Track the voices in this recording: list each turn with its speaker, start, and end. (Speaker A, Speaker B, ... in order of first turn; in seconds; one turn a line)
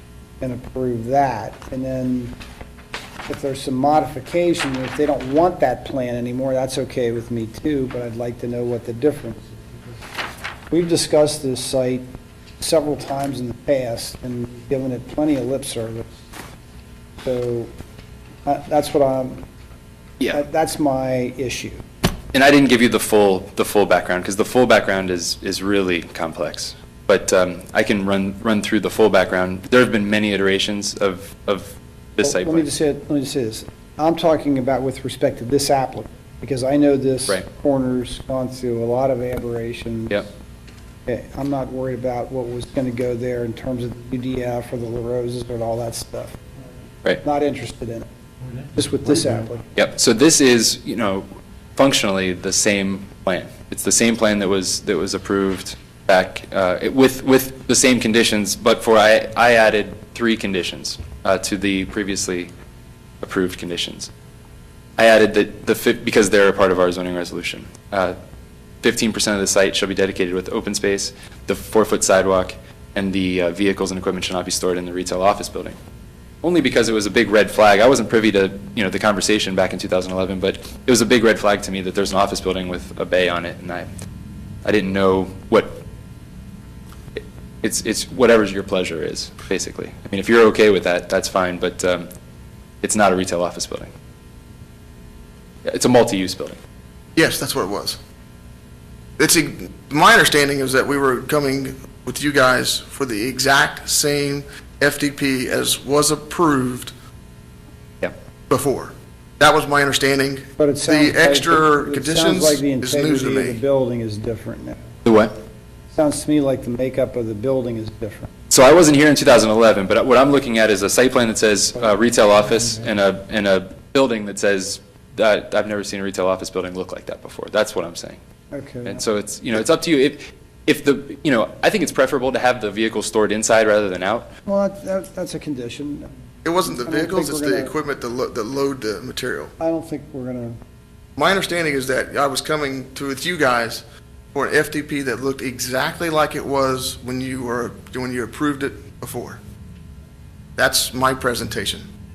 Speaker A: 0.4-2.4
Speaker A: 3.3-9.6
Speaker A: 10.7-12.1
Speaker A: 12.6-16.2
Speaker A: 17.2-17.7
Speaker A: 18.4-19.4
Speaker A: 20.3-21.8
Speaker B: 22.3-32.7
Speaker A: 32.2-40.3
Speaker A: 41.0-46.4
Speaker A: 47.2-48.1
Speaker A: 48.7-49.7
Speaker B: 49.7-62.5
Speaker B: 63.2-64.1
Speaker B: 65.0-68.2
Speaker B: 68.8-75.8
Speaker B: 76.4-83.9
Speaker B: 84.6-85.8
Speaker B: 87.2-92.1
Speaker B: 92.8-93.9
Speaker B: 95.6-96.6
Speaker C: 97.1-98.0
Speaker C: 99.2-106.9
Speaker C: 108.5-113.6
Speaker A: 110.6-114.8
Speaker B: 115.0-115.3
Speaker A: 115.9-118.3
Speaker B: 118.5-128.2
Speaker A: 128.5-129.0
Speaker B: 128.8-134.3
Speaker A: 134.5-136.1
Speaker C: 136.4-139.5
Speaker A: 136.6-137.7
Speaker A: 139.6-140.6
Speaker C: 141.2-149.4
Speaker C: 150.6-151.9